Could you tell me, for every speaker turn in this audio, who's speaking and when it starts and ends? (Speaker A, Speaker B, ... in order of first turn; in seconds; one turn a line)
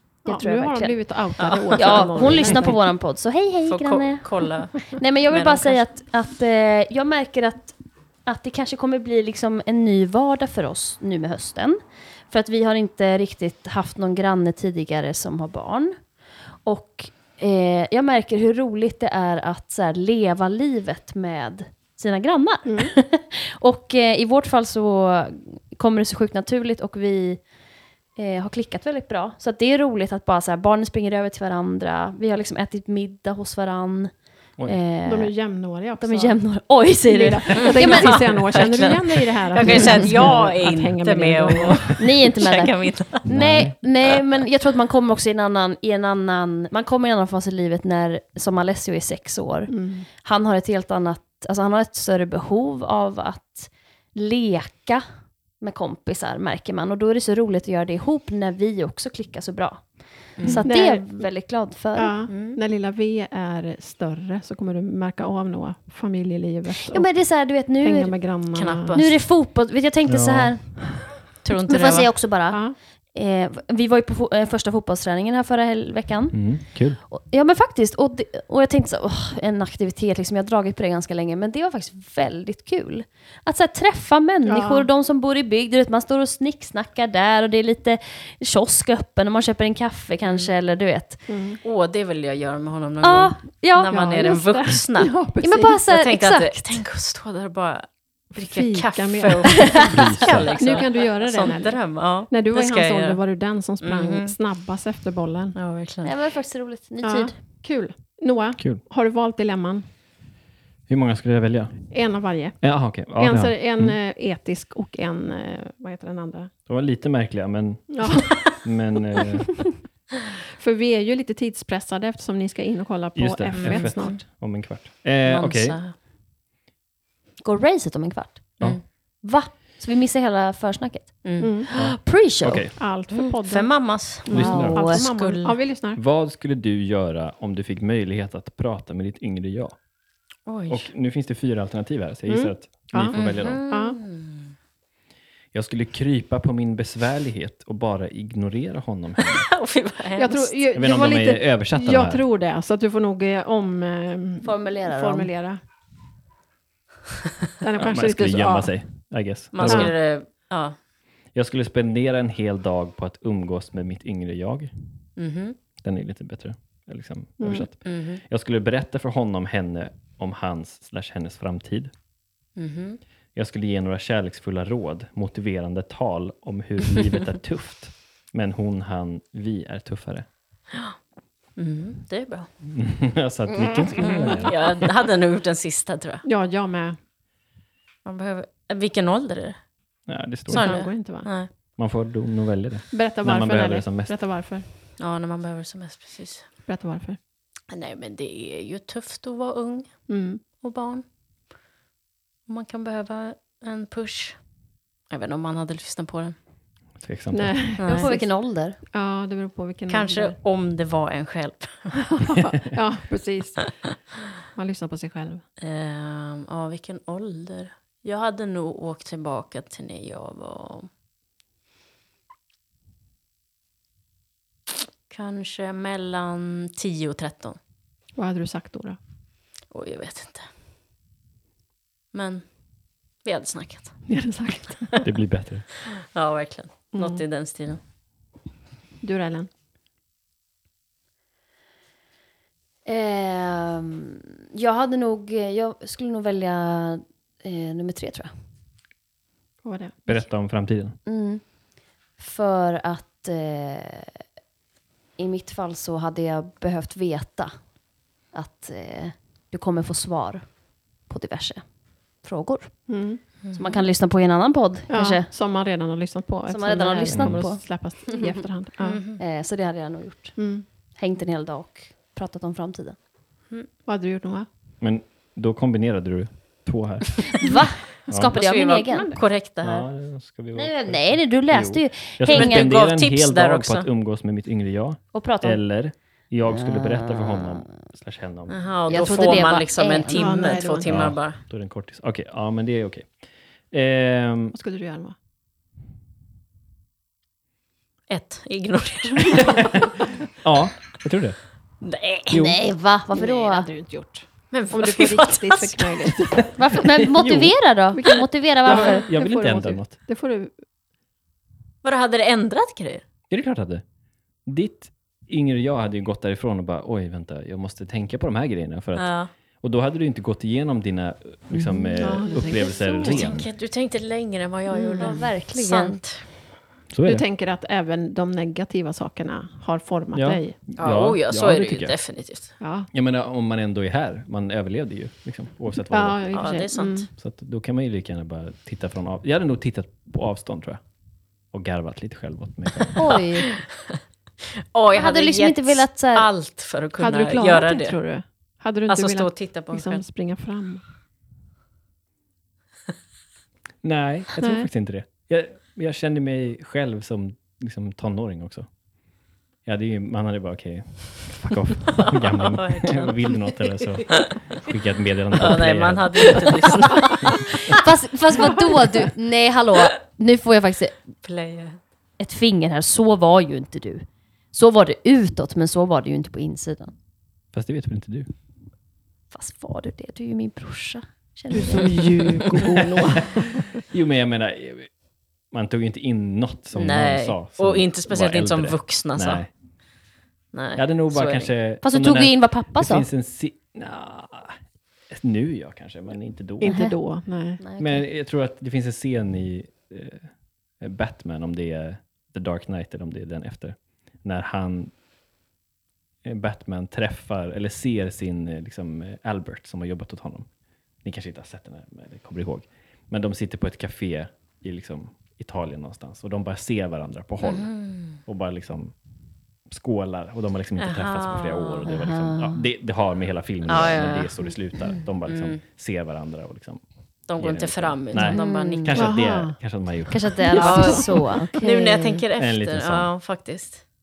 Speaker A: 0.2-1.0
Speaker B: 0.2-2.8
Speaker C: 1.4-2.7
Speaker A: 1.8-4.3
Speaker C: 3.7-5.8
Speaker A: 4.8-16.0
Speaker A: 16.6-27.4
Speaker B: 22.6-22.9
Speaker A: 28.1-35.3
Speaker B: 35.0-36.4
Speaker A: 36.0-38.2
Speaker B: 37.0-42.0
Speaker C: 37.6-43.3
Speaker A: 39.6-40.1
Speaker A: 42.0-55.0
Speaker D: 43.3-43.7
Speaker B: 49.7-50.1
Speaker A: 55.6-62.1
Speaker C: 60.4-60.7
Speaker B: 60.5-61.3
Speaker B: 61.9-67.2
Speaker C: 62.3-62.6
Speaker A: 66.9-68.3
Speaker B: 67.7-69.0
Speaker C: 68.5-69.1
Speaker A: 68.9-71.1
Speaker D: 70.0-71.0
Speaker C: 71.4-72.2
Speaker A: 71.7-91.3
Speaker B: 72.5-72.8
Speaker D: 76.3-77.0
Speaker B: 84.4-84.9
Speaker C: 90.2-90.5
Speaker B: 91.3-91.6
Speaker C: 91.6-95.1
Speaker A: 93.0-94.3
Speaker B: 93.9-95.8
Speaker A: 95.4-96.8
Speaker C: 95.9-103.2
Speaker B: 98.3-99.9
Speaker A: 99.7-100.1
Speaker D: 99.9-100.5
Speaker B: 100.5-105.5
Speaker C: 103.8-104.3
Speaker C: 105.5-106.1
Speaker A: 106.0-107.4
Speaker B: 107.0-109.8
Speaker D: 110.9-112.0
Speaker B: 111.9-116.5
Speaker D: 112.6-114.0
Speaker D: 116.7-119.6
Speaker B: 117.9-118.4
Speaker B: 120.6-124.2
Speaker D: 123.1-125.8
Speaker C: 123.5-124.2
Speaker C: 125.2-125.9
Speaker A: 127.4-132.7
Speaker C: 131.2-131.5
Speaker B: 131.4-131.7
Speaker D: 131.7-132.8
Speaker B: 132.8-136.0
Speaker C: 133.1-135.6
Speaker D: 134.3-134.9
Speaker A: 134.3-135.0
Speaker D: 135.9-139.8
Speaker C: 140.4-140.9
Speaker D: 140.7-143.6
Speaker B: 142.3-144.0
Speaker C: 143.1-144.5
Speaker D: 145.5-149.5
Speaker C: 149.5-150.5
Speaker B: 150.1-155.6
Speaker D: 150.7-152.2
Speaker A: 154.4-155.3
Speaker B: 157.6-158.7
Speaker D: 157.8-159.9
Speaker C: 159.5-160.7
Speaker B: 159.6-159.9
Speaker D: 161.3-165.0
Speaker C: 165.2-165.6
Speaker D: 165.8-171.9
Speaker B: 167.4-167.7
Speaker C: 167.8-168.2
Speaker C: 172.6-173.0
Speaker D: 173.3-180.3
Speaker C: 181.6-182.5
Speaker D: 182.6-184.9
Speaker A: 183.6-184.0
Speaker C: 184.0-186.2
Speaker B: 186.2-187.0
Speaker C: 188.0-189.6
Speaker D: 190.1-190.8
Speaker B: 190.5-191.3
Speaker C: 190.5-191.5
Speaker D: 191.8-194.1
Speaker B: 192.9-194.6
Speaker C: 195.0-196.5
Speaker B: 196.7-197.2
Speaker C: 197.7-201.0
Speaker B: 200.1-200.4
Speaker C: 202.5-204.4
Speaker C: 205.1-206.3
Speaker D: 207.0-207.7
Speaker B: 207.3-208.3
Speaker C: 207.8-208.2
Speaker A: 207.8-208.8
Speaker B: 208.9-210.4
Speaker C: 209.9-212.2
Speaker B: 212.1-213.7
Speaker B: 214.5-215.4
Speaker C: 215.6-220.9
Speaker C: 225.1-227.6
Speaker B: 228.1-229.0
Speaker C: 229.7-230.5
Speaker C: 232.1-232.6
Speaker C: 233.2-234.1
Speaker B: 234.1-235.0
Speaker D: 235.0-235.6
Speaker C: 236.1-237.8
Speaker B: 236.9-237.2
Speaker B: 239.0-239.5
Speaker A: 242.8-248.3
Speaker B: 249.6-250.0
Speaker D: 250.1-251.0
Speaker A: 251.0-251.6
Speaker A: 252.2-254.2
Speaker A: 255.2-257.5
Speaker A: 258.3-261.7
Speaker A: 262.2-265.3
Speaker B: 262.9-263.2
Speaker C: 263.4-263.8
Speaker B: 264.9-269.0
Speaker A: 266.5-268.3
Speaker D: 267.0-267.4
Speaker C: 268.8-269.2
Speaker A: 269.2-273.0
Speaker B: 270.4-270.6
Speaker B: 273.8-274.5
Speaker D: 274.8-277.5
Speaker A: 277.4-279.2
Speaker D: 278.1-278.4
Speaker C: 278.3-279.9
Speaker D: 279.6-288.6
Speaker A: 280.5-282.7
Speaker C: 282.3-283.9
Speaker A: 285.1-285.6
Speaker A: 286.5-287.7
Speaker C: 288.5-291.4
Speaker A: 288.9-290.6
Speaker B: 290.1-291.1
Speaker D: 290.8-293.2
Speaker D: 293.7-294.5
Speaker B: 294.5-295.1
Speaker C: 298.1-299.8
Speaker D: 300.4-301.5
Speaker C: 301.8-302.4
Speaker D: 302.3-302.6
Speaker A: 302.3-303.7
Speaker B: 303.1-306.5
Speaker C: 304.5-306.2
Speaker A: 306.6-309.1
Speaker D: 306.8-307.5
Speaker B: 307.9-310.5
Speaker D: 308.6-309.9
Speaker C: 311.8-313.0
Speaker D: 313.3-313.8
Speaker D: 314.4-323.5
Speaker C: 318.9-319.3
Speaker A: 321.5-322.6
Speaker B: 322.0-323.3
Speaker C: 322.8-326.3
Speaker B: 324.7-325.3
Speaker A: 325.0-326.0
Speaker D: 326.9-327.2
Speaker B: 327.0-330.6
Speaker D: 330.1-332.0
Speaker C: 330.8-332.5
Speaker B: 332.6-332.9
Speaker D: 332.9-336.4
Speaker B: 335.9-337.1
Speaker C: 336.3-337.1
Speaker D: 337.1-340.8
Speaker D: 341.5-343.0
Speaker A: 342.9-343.5
Speaker C: 343.0-344.0
Speaker C: 344.7-348.0
Speaker A: 344.9-346.3
Speaker B: 347.0-350.8
Speaker C: 348.9-350.0
Speaker D: 353.8-358.7
Speaker B: 354.4-354.7
Speaker D: 359.6-366.6
Speaker C: 362.1-364.3
Speaker C: 365.4-367.5
Speaker A: 367.7-371.0
Speaker C: 371.2-371.8
Speaker A: 372.2-376.9
Speaker D: 377.5-378.3
Speaker A: 379.3-383.0
Speaker B: 381.5-383.4
Speaker D: 383.9-384.9
Speaker D: 385.5-389.5
Speaker C: 386.7-389.4
Speaker C: 390.5-391.5
Speaker D: 390.7-394.6
Speaker A: 391.8-393.1
Speaker D: 395.1-396.9
Speaker B: 396.6-397.6
Speaker A: 396.6-397.0
Speaker A: 397.6-398.0
Speaker D: 397.8-404.9
Speaker D: 406.2-410.5
Speaker D: 411.0-418.9
Speaker C: 417.4-418.1
Speaker D: 419.7-430.9
Speaker C: 420.8-421.9
Speaker A: 421.9-422.6
Speaker C: 423.7-424.6
Speaker C: 425.3-425.6
Speaker C: 427.3-428.9
Speaker A: 428.1-429.1
Speaker B: 428.9-429.6
Speaker A: 430.1-432.2
Speaker C: 430.5-433.9
Speaker B: 430.7-431.0
Speaker D: 432.4-433.1